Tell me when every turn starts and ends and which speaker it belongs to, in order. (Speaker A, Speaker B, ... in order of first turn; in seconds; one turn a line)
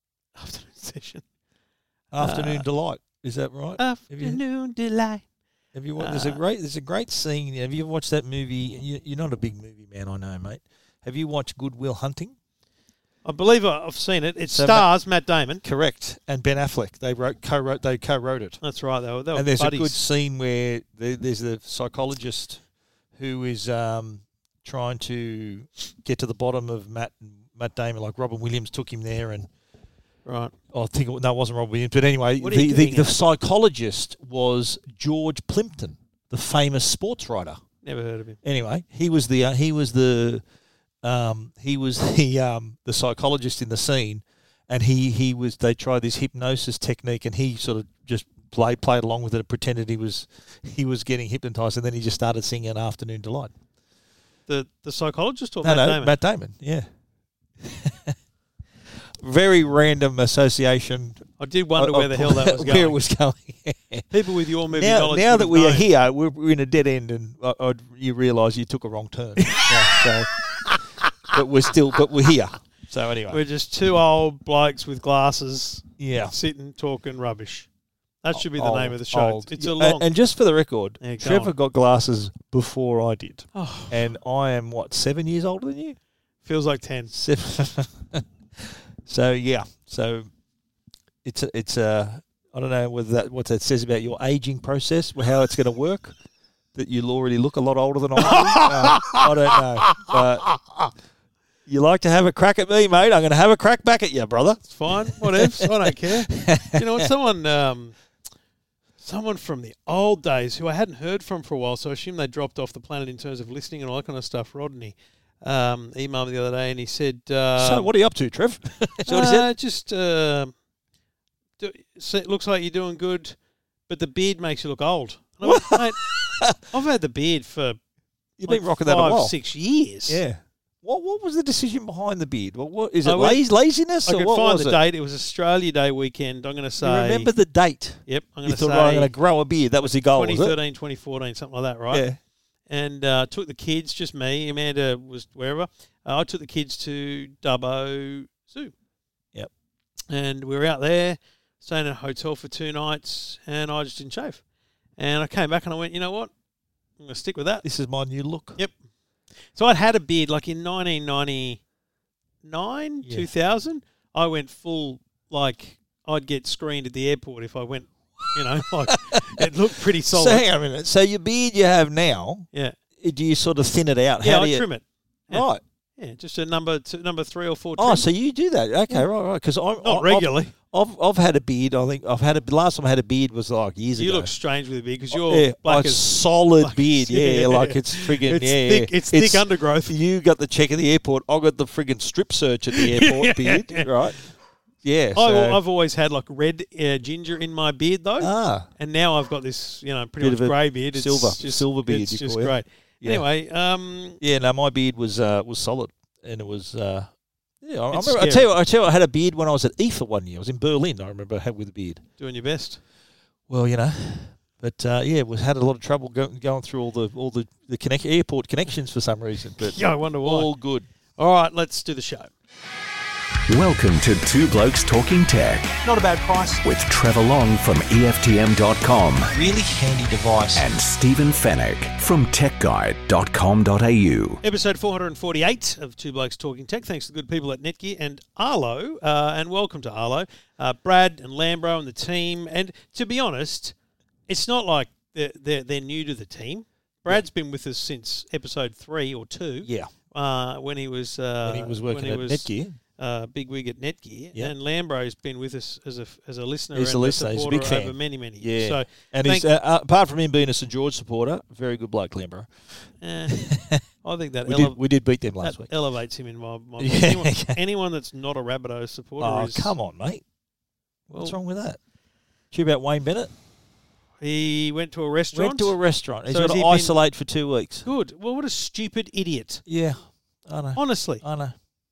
Speaker A: 0.3-1.2
Speaker B: 2.1-4.4
Speaker A: 2.2-2.6
Speaker A: 3.8-5.2
Speaker B: 5.7-12.3
Speaker A: 6.0-6.4
Speaker A: 13.2-15.6
Speaker B: 14.5-14.9
Speaker B: 15.6-18.6
Speaker A: 18.6-20.0
Speaker B: 19.3-22.6
Speaker B: 23.1-29.5
Speaker A: 30.2-30.6
Speaker B: 30.7-37.6
Speaker A: 32.4-33.2
Speaker A: 37.8-38.4
Speaker B: 38.4-40.4
Speaker B: 41.0-53.5
Speaker A: 54.5-56.2
Speaker B: 55.6-56.9
Speaker B: 57.6-58.1
Speaker B: 59.2-64.1
Speaker A: 61.4-63.0
Speaker A: 64.1-65.9
Speaker B: 64.7-70.3
Speaker A: 69.5-70.1
Speaker B: 71.3-73.4
Speaker A: 73.3-77.7
Speaker B: 76.0-76.3
Speaker A: 78.2-80.1
Speaker B: 78.3-86.0
Speaker A: 81.0-81.5
Speaker A: 83.5-84.0
Speaker A: 86.4-87.2
Speaker B: 87.1-90.3
Speaker B: 91.2-96.2
Speaker B: 96.7-100.5
Speaker A: 98.2-100.8
Speaker B: 101.7-107.1
Speaker A: 104.7-108.0
Speaker A: 109.0-117.9
Speaker B: 117.6-119.5
Speaker A: 119.1-120.5
Speaker A: 121.6-123.4
Speaker A: 123.9-127.8
Speaker B: 125.4-126.7
Speaker B: 128.4-129.3
Speaker A: 128.5-130.2
Speaker B: 130.1-134.8
Speaker A: 133.0-133.4
Speaker A: 134.1-137.3
Speaker B: 136.8-140.6
Speaker A: 138.1-139.1
Speaker A: 139.8-142.1
Speaker B: 141.9-142.2
Speaker A: 142.7-148.7
Speaker A: 150.1-154.4
Speaker A: 155.0-156.3
Speaker A: 157.0-157.7
Speaker B: 157.6-158.6
Speaker A: 159.5-161.6
Speaker A: 162.4-170.4
Speaker B: 163.0-163.3
Speaker B: 168.6-174.7
Speaker A: 174.2-178.1
Speaker B: 175.3-175.6
Speaker B: 177.8-184.3
Speaker A: 179.8-180.5
Speaker A: 184.0-190.0
Speaker B: 185.1-194.2
Speaker A: 192.7-194.2
Speaker B: 194.8-195.6
Speaker A: 195.2-204.2
Speaker B: 198.2-198.7
Speaker B: 200.2-203.2
Speaker B: 204.2-207.1
Speaker B: 207.6-212.0
Speaker A: 207.9-208.5
Speaker A: 212.2-212.8
Speaker B: 213.5-220.9
Speaker A: 219.6-220.5
Speaker A: 221.2-222.3
Speaker C: 223.5-225.8
Speaker A: 225.8-226.6
Speaker C: 226.6-229.3
Speaker B: 229.3-230.6
Speaker C: 230.6-234.4
Speaker A: 234.4-243.8
Speaker A: 244.3-259.5
Speaker B: 249.6-249.9
Speaker B: 251.4-252.8
Speaker B: 256.7-263.8
Speaker A: 263.0-263.5
Speaker A: 264.0-264.8
Speaker B: 264.5-265.7
Speaker A: 265.4-269.7
Speaker B: 266.8-267.6
Speaker B: 269.2-270.2
Speaker B: 271.1-271.8
Speaker A: 271.1-271.4
Speaker B: 272.5-273.3
Speaker A: 274.2-275.8
Speaker B: 275.3-277.9
Speaker A: 276.3-276.9
Speaker A: 277.9-279.6
Speaker B: 279.7-281.6
Speaker A: 280.8-281.2